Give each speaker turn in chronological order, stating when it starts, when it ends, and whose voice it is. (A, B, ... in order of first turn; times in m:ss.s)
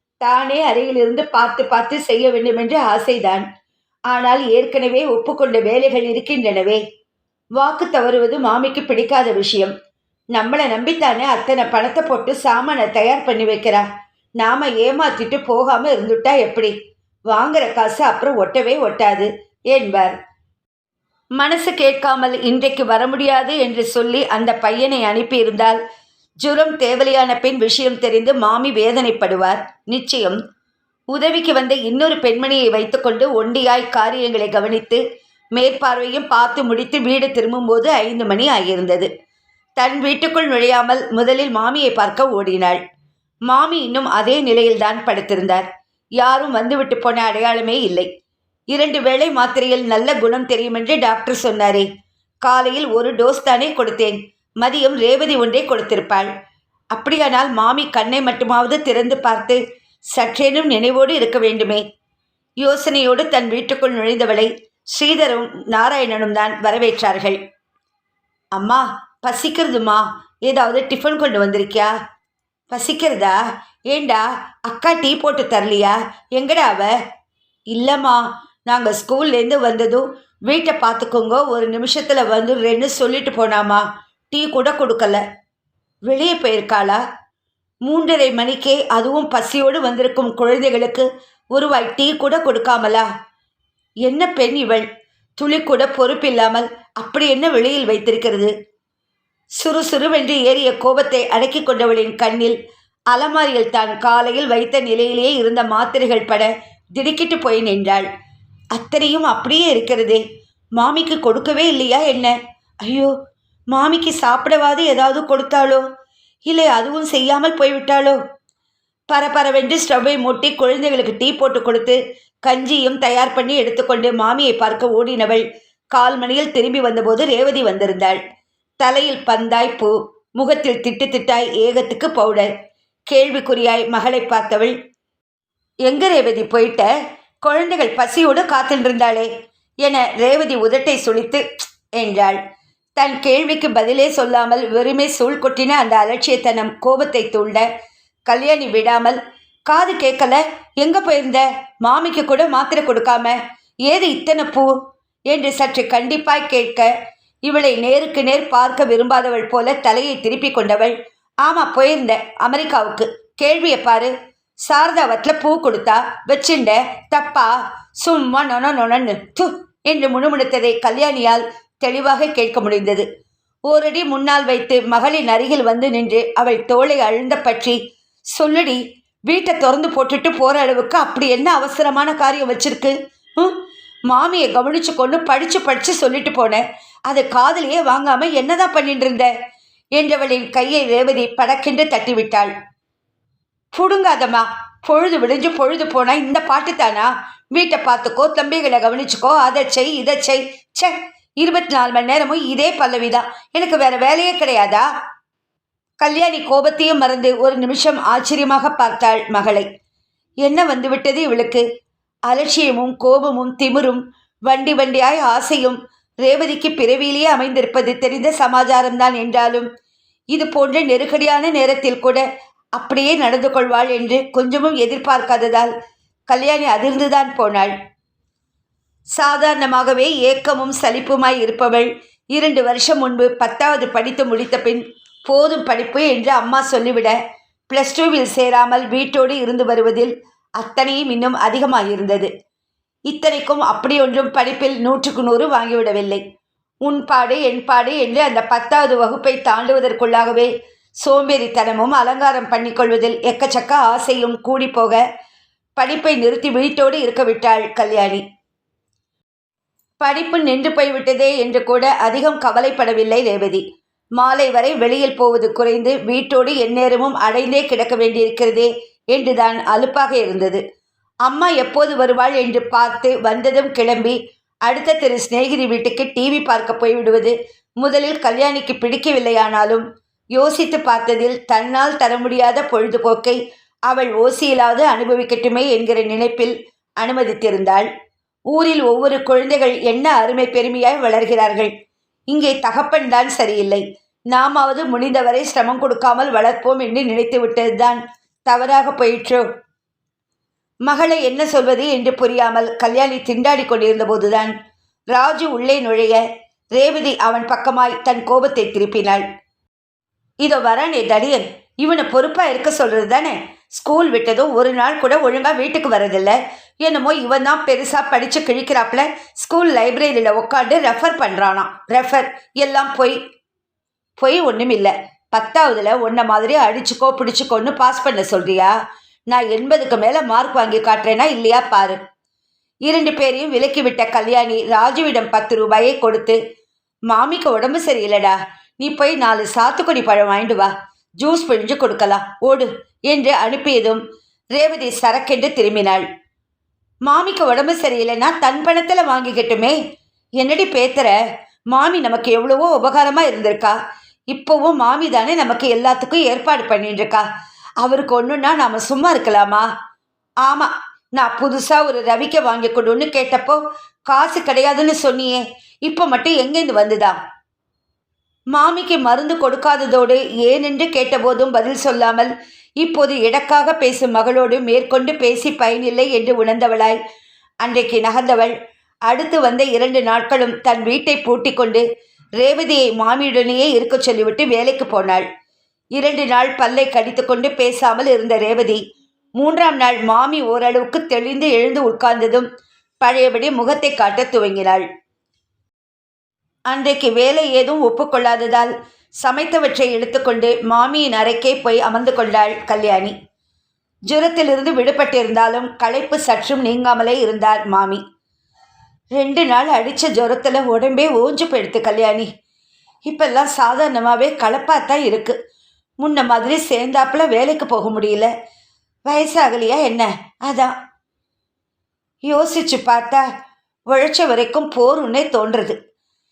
0:00.2-0:03.4 A
0:04.1-0:06.8 A
0:07.6-0:09.7 A
0:10.3-0:13.8 A
0:14.4-0:16.7 A
0:17.3-0:20.2 A
0:21.4-0:25.8 A
0:26.4-0:30.4 A
0:31.1-0:35.0 A
0:35.6-0:39.1 A
0:39.8-0:42.8 A
0:43.5-0:45.7 A
0:46.2-0:48.1 A
0:48.7-0:51.9 A
0:52.4-0:56.3 A
0:56.9-0:59.6 A
1:00.1-1:01.8 A
1:02.6-1:07.4 A
1:08.6-1:11.9 A
1:12.7-1:17.0 A
1:17.7-1:25.2 A
1:26.1-1:27.0 A
1:27.9-1:33.1 A
1:34.0-1:34.9 A
1:35.4-1:38.5 A
1:39.6-1:42.6 A
1:43.1-1:48.1 A
1:48.7-1:50.2 A
1:50.8-1:53.1 A
1:53.7-1:55.8 A
1:56.5-1:58.2 A
1:59.1-2:08.2 A
2:08.8-2:12.5 A
2:13.1-2:14.7 A
2:15.9-2:16.9 A
2:17.4-2:19.3 A
2:19.8-2:22.4 A
2:23.0-2:27.7 A
2:28.3-2:34.7 A
2:35.3-2:36.9 A
2:37.5-2:44.1 A
2:44.7-2:53.1 A
2:53.7-2:57.8 A
2:58.3-3:09.3 A
3:10.0-3:12.5 A
3:13.7-3:24.9 A
3:26.0-3:29.7 A
3:30.4-3:31.6 A
3:32.3-3:39.7 A
3:40.3-3:42.2 A
3:42.8-3:45.7 A
3:46.3-3:47.7 A
3:49.2-3:57.2 A
3:57.7-4:02.3 A
4:03.1-4:06.2 A
4:06.8-4:15.0 A
4:15.8-4:18.2 A
4:20.0-4:23.6 A
4:24.2-4:30.6 A
4:31.2-4:39.8 A
4:40.4-4:47.9 A
4:48.5-4:51.7 A
4:52.3-4:59.5 A
5:00.9-5:04.5 A
5:05.1-5:06.2 A
5:06.8-5:09.2 A
5:10.4-5:23.2 A
5:24.2-5:28.8 A
5:29.3-5:32.0 A
5:32.9-5:36.4 A
5:37.1-5:44.0 A
5:44.5-5:46.1 A
5:47.1-5:49.8 A
5:50.4-5:51.2 A
5:51.7-5:53.8 A
5:54.3-5:57.2 A
5:57.8-5:59.7 A
6:00.4-6:07.2 A
6:08.5-6:17.0 A
6:17.6-6:18.5 A
6:19.1-6:21.8 A
6:22.4-6:25.3 A
6:26.0-6:28.8 A
6:29.4-6:32.5 A
6:33.0-6:34.9 A
6:36.7-6:38.7 A
6:39.2-6:43.1 A
6:44.1-6:48.0 A
6:49.2-6:52.3 A
6:53.1-6:55.4 A
6:56.0-6:58.3 A
6:59.1-7:00.8 A
7:02.2-7:03.2 A
7:03.9-7:05.8 A